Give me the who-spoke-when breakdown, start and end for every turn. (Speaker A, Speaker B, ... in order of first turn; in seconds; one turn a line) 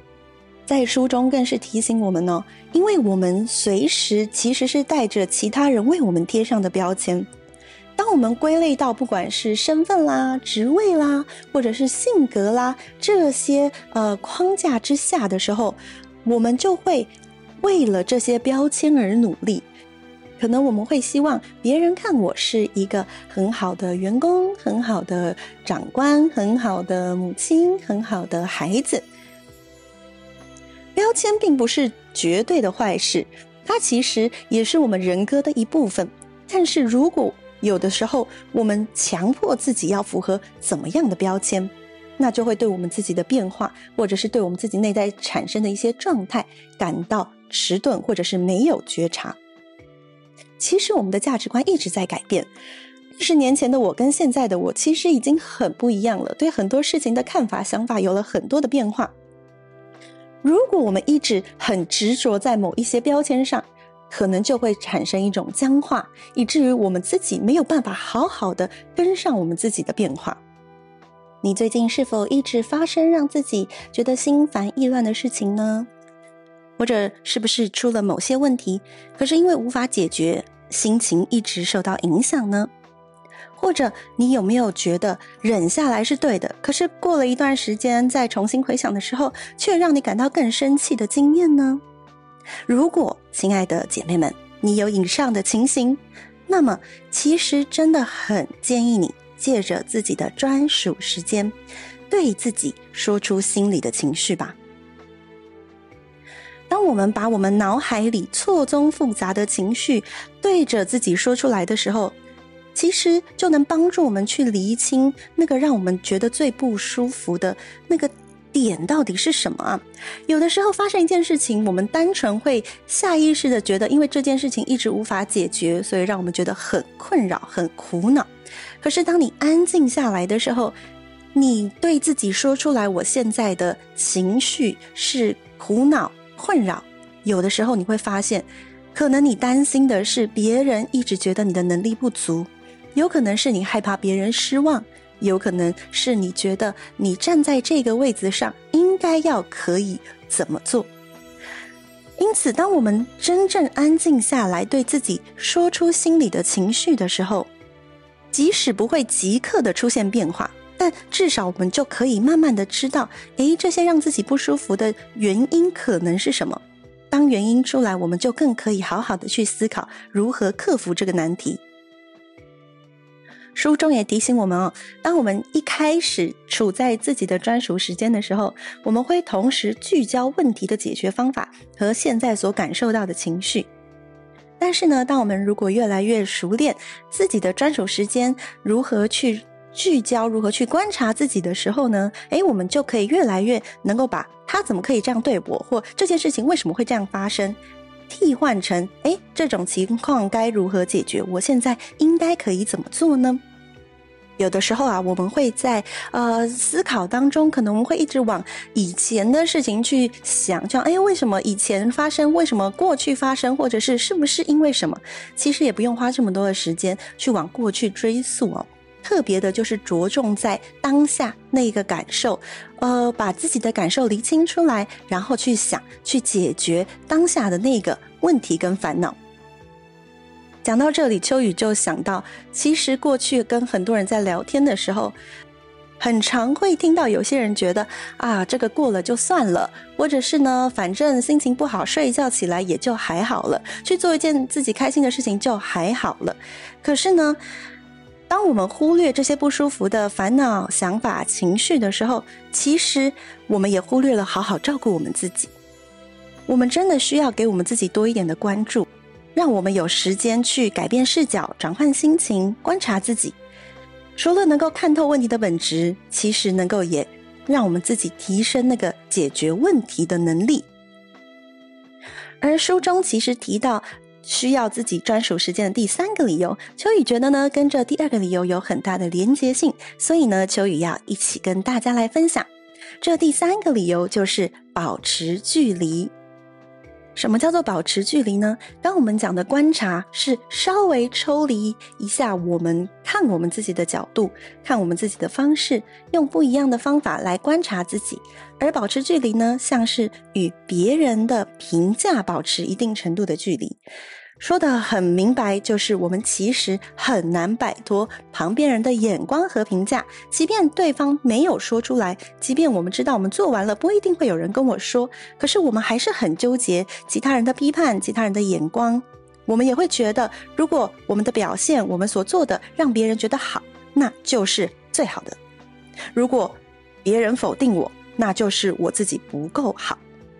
Speaker A: 0.7-7.3
Speaker A: 8.0-19.7
Speaker A: 20.4-29.0
Speaker A: 30.9-49.4
Speaker A: 50.6-52.5
Speaker A: 53.1-59.1
Speaker A: 60.4-70.4
Speaker A: 71.4-75.9
Speaker A: 76.8-82.7
Speaker A: 83.5-91.8
Speaker A: 92.7-101.5
Speaker A: 102.1-104.5
Speaker A: 106.7-112.2
Speaker A: 112.7-128.3
Speaker A: 128.8-130.8
Speaker A: 131.3-150.9
Speaker A: 152.2-157.5
Speaker A: 158.3-171.6
Speaker A: 173.5-183.7
Speaker A: 184.6-197.6
Speaker A: 198.1-203.4
Speaker A: 204.4-229.2
Speaker A: 230.6-235.2
Speaker A: 236.0-247.4
Speaker A: 248.3-255.5
Speaker A: 256.5-263.4
Speaker A: 264.2-270.7
Speaker A: 272.4-282.5
Speaker A: 283.0-286.1
Speaker A: 287.1-303.8
Speaker A: 304.4-325.4
Speaker A: 326.1-330.0